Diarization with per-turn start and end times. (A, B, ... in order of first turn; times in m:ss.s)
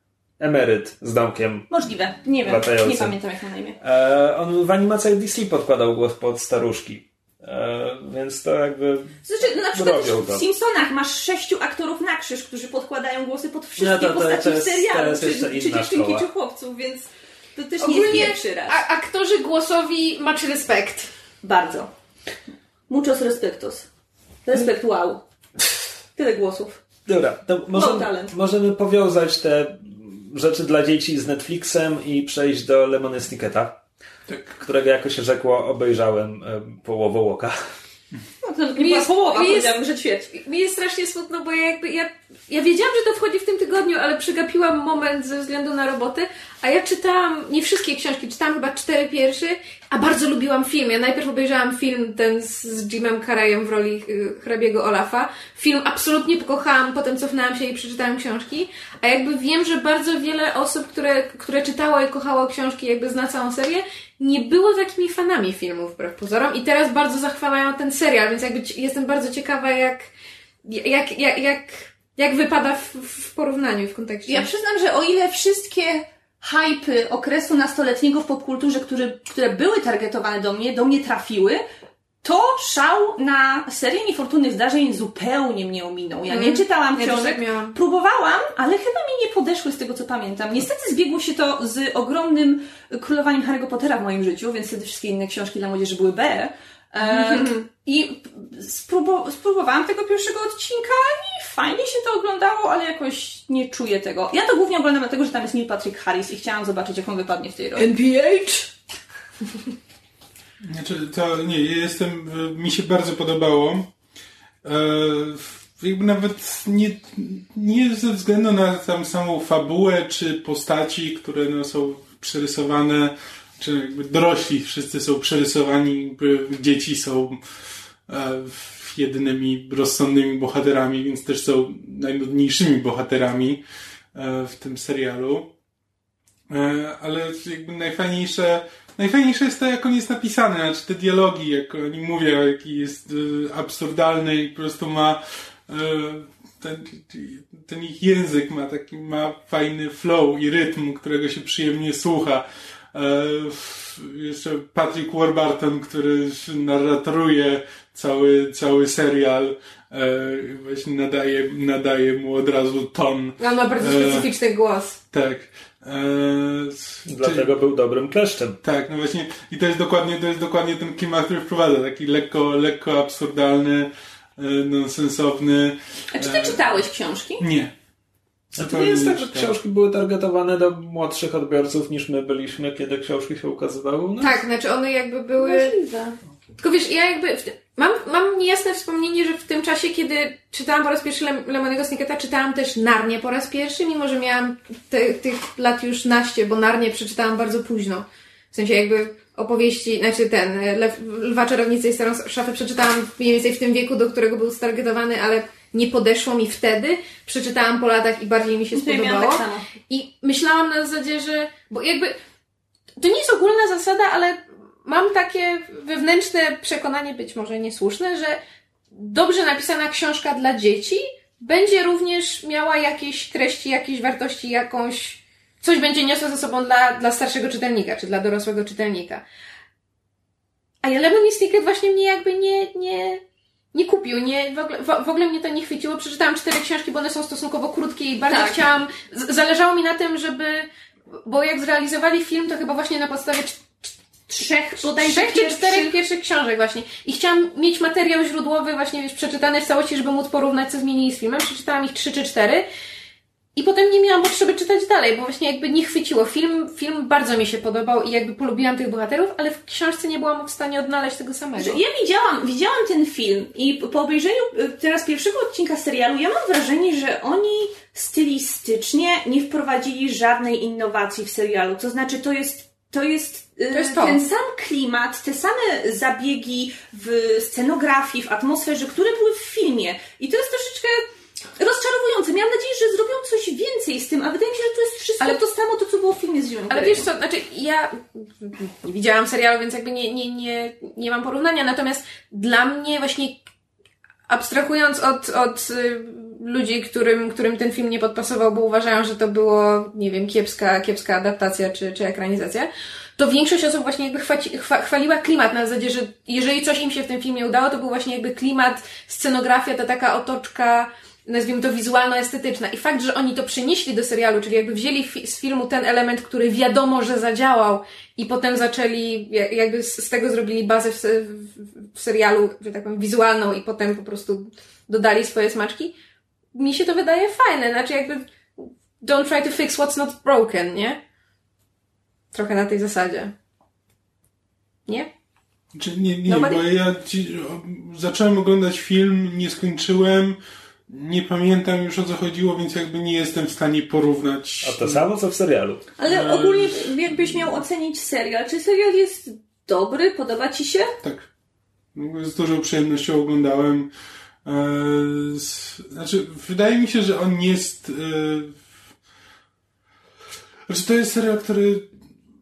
0:00.4-0:01.7 A
0:01.7-0:03.8 B
0:02.4-0:03.2 A
0:03.8-0:10.4 A
0:09.2-0:18.8 B
0:13.8-0:16.3 A
0:17.8-0:21.1 C
0:21.4-0:21.9 B
0:22.9-0:23.9 B
0:24.5-0:25.2 B
0:26.2-0:26.8 B
0:27.1-0:33.8 A
0:27.7-0:28.3 B
0:34.6-0:37.6 A
0:38.4-0:40.3 B
0:38.8-0:39.8 C
0:40.3-1:10.1 C
1:10.7-1:14.5 C
1:14.3-1:21.6 B
1:22.2-1:47.9 B
1:26.3-1:27.8 C
1:37.0-1:37.7 C
1:47.8-1:48.7 C
1:50.6-1:53.9 D
1:54.6-2:07.4 D
2:08.1-2:13.6 D
2:14.1-2:15.5 D
2:16.5-2:44.3 D
2:43.4-2:45.0 C
2:45.1-2:47.5 D
2:47.1-2:48.6 A
2:48.6-2:56.7 D
2:56.1-2:57.5 B
2:57.4-2:57.7 D
2:58.6-2:59.5 D
2:58.6-3:04.4 A
3:04.2-3:05.7 C
3:05.4-3:06.2 B
3:06.6-3:32.2 C
3:28.7-3:29.6 B
3:33.0-3:38.4 C
3:39.0-3:49.2 C
3:50.8-3:53.2 C
3:53.7-4:00.7 C
3:58.3-3:58.6 B
4:01.2-4:03.8 C
4:04.3-4:06.0 B
4:04.8-4:12.7 C
4:13.6-4:21.8 C
4:21.6-4:47.1 B
4:33.7-4:34.2 C
4:46.7-4:53.4 C
4:54.3-5:25.9 C
5:26.5-5:31.0 C
5:32.3-5:33.3 C
5:35.7-5:45.0 D
5:36.3-5:36.6 C
5:44.6-5:45.8 A
5:46.0-5:51.0 B
5:46.0-5:47.6 D
5:51.0-5:51.3 D
5:52.0-5:53.9 D
5:54.4-5:58.6 D
6:00.7-6:01.9 D